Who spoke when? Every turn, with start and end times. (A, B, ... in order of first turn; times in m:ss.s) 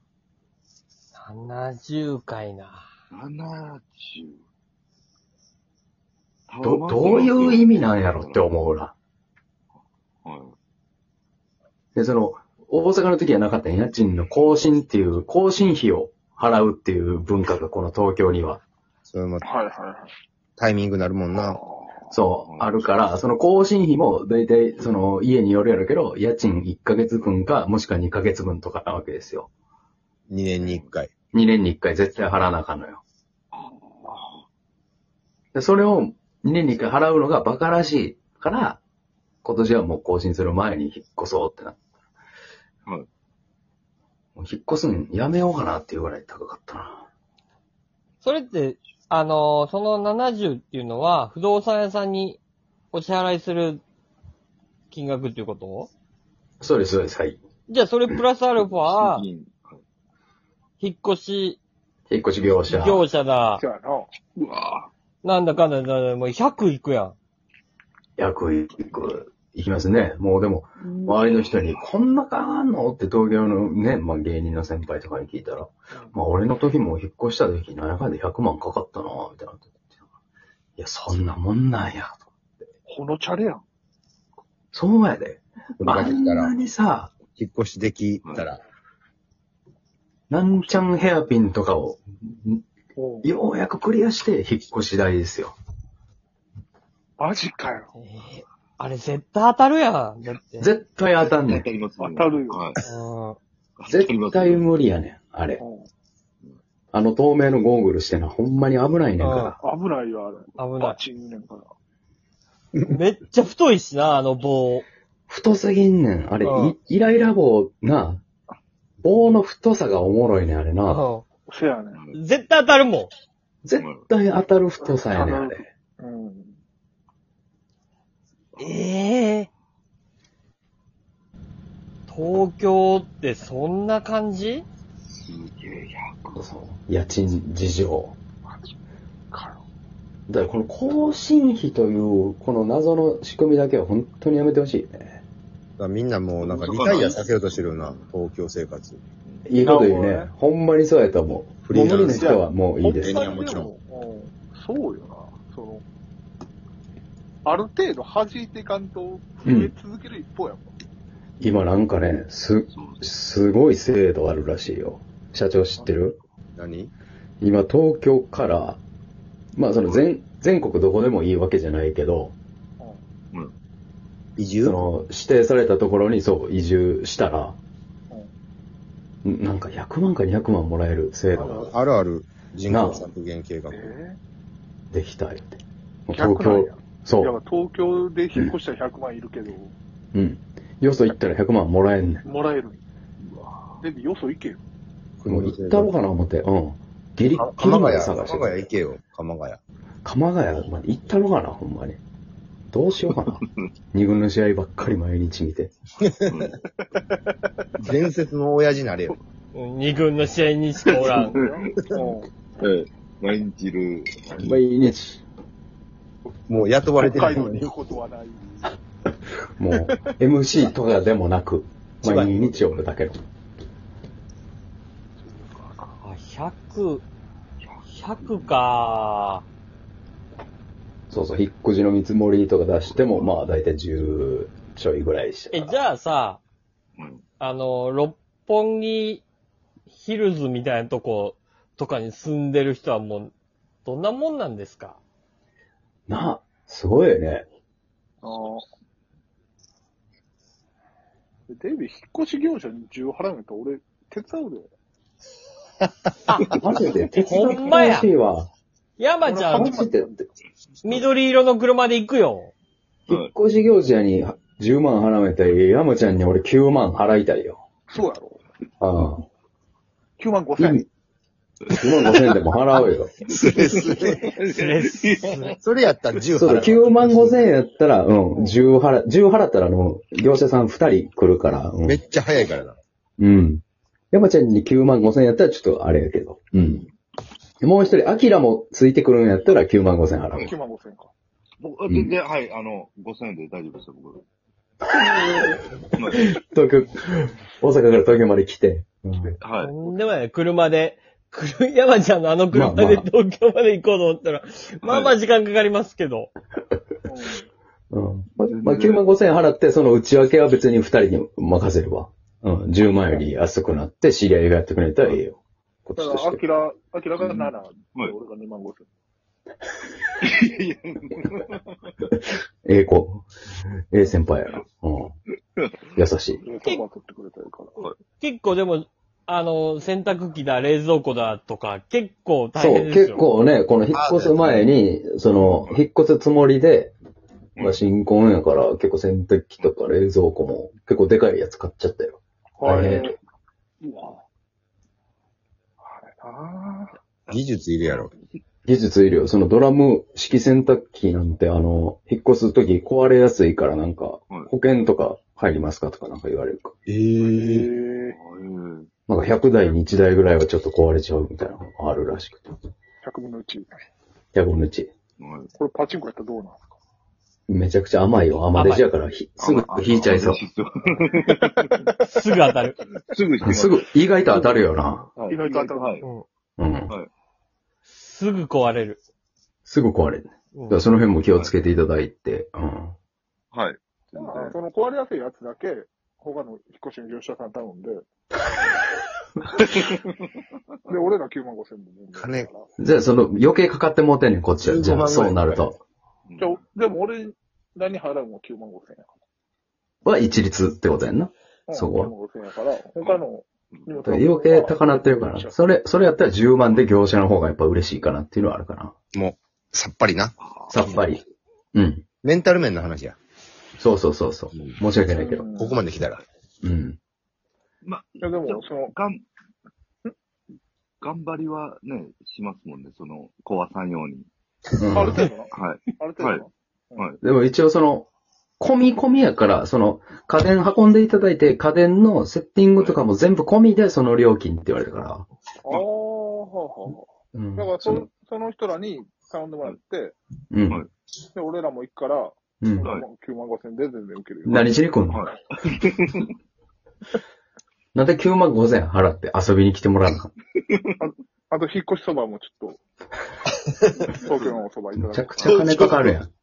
0:01.1-0:02.9 A
0:03.1-0:04.4 B
0:06.5-0:08.5 B
0:06.6-0:08.9 C
0:10.2-0:10.6 B
0:11.9-0:18.6 C
0:19.1-0:19.4 D
0:19.4-0:20.1 E
0:20.6-0:21.6 D
0:21.3-0:22.0 E
0:22.1-0:29.5 C
0:22.4-0:22.9 B
0:30.3-0:31.1 D
0:30.6-0:30.9 B
0:31.3-0:33.0 C
0:33.5-0:34.4 B
0:35.5-0:38.8 C
0:39.4-0:41.8 C
0:44.4-0:47.1 C
0:48.2-0:52.4 A
0:52.9-0:53.8 A
0:54.9-0:55.9 A
0:56.6-0:57.4 C
0:57.7-0:59.2 A
0:58.6-0:59.8 B
1:00.8-1:01.6 A
1:02.1-1:03.0 C
1:02.7-1:03.6 A
1:03.6-1:04.1 E
1:04.4-1:04.9 B
1:05.2-1:07.2 A
1:08.2-1:20.1 C
1:20.8-1:22.3 C
1:22.9-1:23.6 E
1:24.7-1:27.2 C
1:25.8-1:26.6 D
1:27.2-1:28.6 D
1:30.3-1:32.6 C
1:33.0-1:33.3 E
1:33.2-1:35.6 C
1:37.2-1:37.9 E
1:38.0-1:40.7 A
1:40.6-1:41.7 C
1:41.4-1:42.8 B
1:42.0-1:42.7 E
1:42.8-1:43.4 A
1:43.8-1:44.7 B
1:43.9-1:45.6 C
1:45.6-1:45.9 E
1:46.9-1:49.6 C
1:49.2-1:49.6 A
1:49.6-1:51.7 E
1:50.6-1:51.0 A
1:52.8-1:54.8 A
1:55.3-1:58.2 C
1:56.4-1:56.8 A
1:59.0-2:01.0 C
2:00.9-2:01.2 A
2:01.5-2:02.0 E
2:01.9-2:02.2 B
2:02.1-2:03.1 A
2:03.6-2:05.7 C
2:03.8-2:04.0 B
2:04.8-2:06.6 E
2:08.6-2:08.8 B
2:08.6-2:09.5 A
2:12.1-2:14.6 A
2:15.2-2:16.4 B
2:16.4-2:18.2 C
2:18.4-2:18.7 E
2:19.3-2:19.6 E
2:20.3-2:25.2 C
2:25.8-2:29.0 D
2:26.4-2:28.1 B
2:29.4-2:33.3 C
2:29.6-2:30.3 E
2:31.6-2:32.4 D
2:32.0-2:35.8 E
2:33.0-2:33.7 D
2:37.4-2:40.7 E
2:39.4-2:39.7 C
2:41.4-2:46.2 C
2:42.7-2:43.1 B
2:46.6-2:46.9 D
2:47.4-2:48.8 C
2:49.6-2:52.4 C
2:54.4-2:54.9 D
2:54.6-2:57.6 C
2:59.2-3:01.7 C
3:01.4-3:01.7 E
3:01.5-3:03.9 D
3:02.7-3:03.0 C
3:03.7-3:04.2 E
3:04.9-3:07.3 C
3:06.1-3:09.7 E
3:10.1-3:12.2 C
3:12.2-3:12.8 E
3:13.2-3:13.8 B
3:13.8-3:14.6 E
3:15.2-3:15.9 D
3:15.3-3:18.7 C
3:17.3-3:19.6 D
3:20.0-3:22.0 C
3:22.7-3:25.7 C
3:26.0-3:26.5 D
3:26.3-3:26.6 B
3:27.0-3:27.4 E
3:27.8-3:29.2 D
3:29.5-3:31.4 A
3:30.9-3:32.3 E
3:30.9-3:31.4 B
3:32.6-3:34.6 B
3:34.4-3:35.2 C
3:36.5-3:37.7 D
3:36.9-3:38.8 E
3:39.6-3:43.2 C
3:42.0-3:42.7 D
3:45.2-3:45.9 E
3:46.0-3:47.0 A
3:47.6-3:48.6 B
3:47.9-3:49.4 A
3:51.1-3:55.8 C
3:55.5-3:56.4 A
3:57.0-3:57.2 B
3:57.4-3:59.2 A
3:59.9-4:03.3 A
4:03.8-4:05.0 A
4:06.1-4:07.4 C
4:08.2-4:08.6 E
4:11.5-4:14.7 E
4:16.3-4:16.6 A
4:16.5-4:18.5 C
4:17.2-4:18.1 A
4:19.0-4:19.8 A
4:19.2-4:20.2 E
4:19.5-4:20.1 C
4:20.8-4:22.5 A
4:23.1-4:27.6 C
4:27.9-4:28.4 E
4:28.8-4:29.2 C
4:30.2-4:30.8 E
4:30.6-4:30.9 C
4:31.7-4:33.7 C
4:33.4-4:34.3 D
4:33.4-4:35.6 B
4:34.5-4:35.6 A
4:35.6-4:37.5 D
4:36.4-4:42.0 C
4:38.3-4:38.6 E
4:41.9-4:42.8 D
4:43.2-4:46.9 C
4:47.6-4:50.5 C
4:50.4-4:51.1 E
4:51.6-4:54.2 B
4:51.9-4:52.1 C
4:54.8-4:59.4 C
4:55.9-4:56.3 B
4:59.4-5:00.0 B
4:59.6-5:06.3 A
5:02.5-5:03.0 C
5:04.8-5:05.2 B
5:07.0-5:07.5 E
5:07.9-5:16.4 C
5:08.5-5:09.0 B
5:16.0-5:18.9 E
5:17.2-5:17.5 C
5:20.2-5:22.0 B
5:22.1-5:23.3 C
5:23.9-5:25.1 C
5:26.0-5:26.4 C
5:26.4-5:27.8 E
5:27.8-5:33.2 A
5:32.5-5:36.9 C
5:34.0-5:34.7 D
5:35.4-5:35.8 B
5:37.6-5:43.1 C
5:42.6-5:43.1 E
5:43.8-5:44.2 E
5:45.8-5:47.0 E
5:47.3-5:48.1 D
5:47.3-5:48.4 B
5:48.6-5:56.8 C
5:56.9-5:57.7 D
5:57.3-5:58.2 E
5:58.0-5:58.9 B
5:59.1-6:02.6 C
6:03.0-6:03.7 E
6:04.4-6:04.9 C
6:05.2-6:05.5 B
6:05.5-6:06.8 E
6:07.5-6:10.4 C
6:08.5-6:08.8 A
6:09.4-6:11.9 B
6:11.3-6:12.0 E
6:12.0-6:12.8 A
6:13.0-6:14.6 B
6:13.4-6:15.1 C
6:15.2-6:16.0 B
6:15.2-6:16.1 E
6:16.6-6:16.9 C
6:18.0-6:19.0 A
6:19.6-6:23.0 C
6:20.5-6:20.8 A
6:21.2-6:21.7 B
6:23.5-6:24.5 B
6:24.1-6:28.0 E
6:29.6-6:30.1 B
6:30.9-6:32.6 E
6:32.1-6:32.5 D
6:32.8-6:35.8 C
6:34.6-6:35.6 D
6:36.3-6:36.6 B
6:36.4-6:39.1 E
6:40.0-6:42.1 C
6:41.7-6:45.6 E
6:44.0-6:49.0 C
6:49.1-6:50.4 D
6:50.4-6:50.8 B
6:50.7-6:51.2 C
6:51.8-6:52.0 C
6:52.2-6:53.2 D
6:53.8-6:55.5 C
6:55.1-6:55.8 E
6:55.6-6:56.2 D
6:56.6-6:57.0 C
6:57.8-6:59.2 B
6:58.2-6:58.9 E
7:01.0-7:04.3 B
7:04.8-7:05.3 C
7:04.9-7:07.1 E
7:05.1-7:06.4 B
7:07.2-7:08.1 C
7:08.6-7:15.2 C
7:12.8-7:13.0 B
7:15.6-7:17.0 E
7:17.3-7:18.1 C
7:17.6-7:20.2 E
7:20.5-7:20.8 C
7:21.3-7:24.8 E
7:22.6-7:22.9 C
7:24.4-7:25.2 C
7:25.1-7:26.3 B
7:28.0-7:30.3 C
7:31.0-7:32.8 E
7:33.7-7:34.6 D
7:34.1-7:36.0 E
7:35.0-7:36.3 C
7:35.4-7:35.9 B
7:35.5-7:36.1 D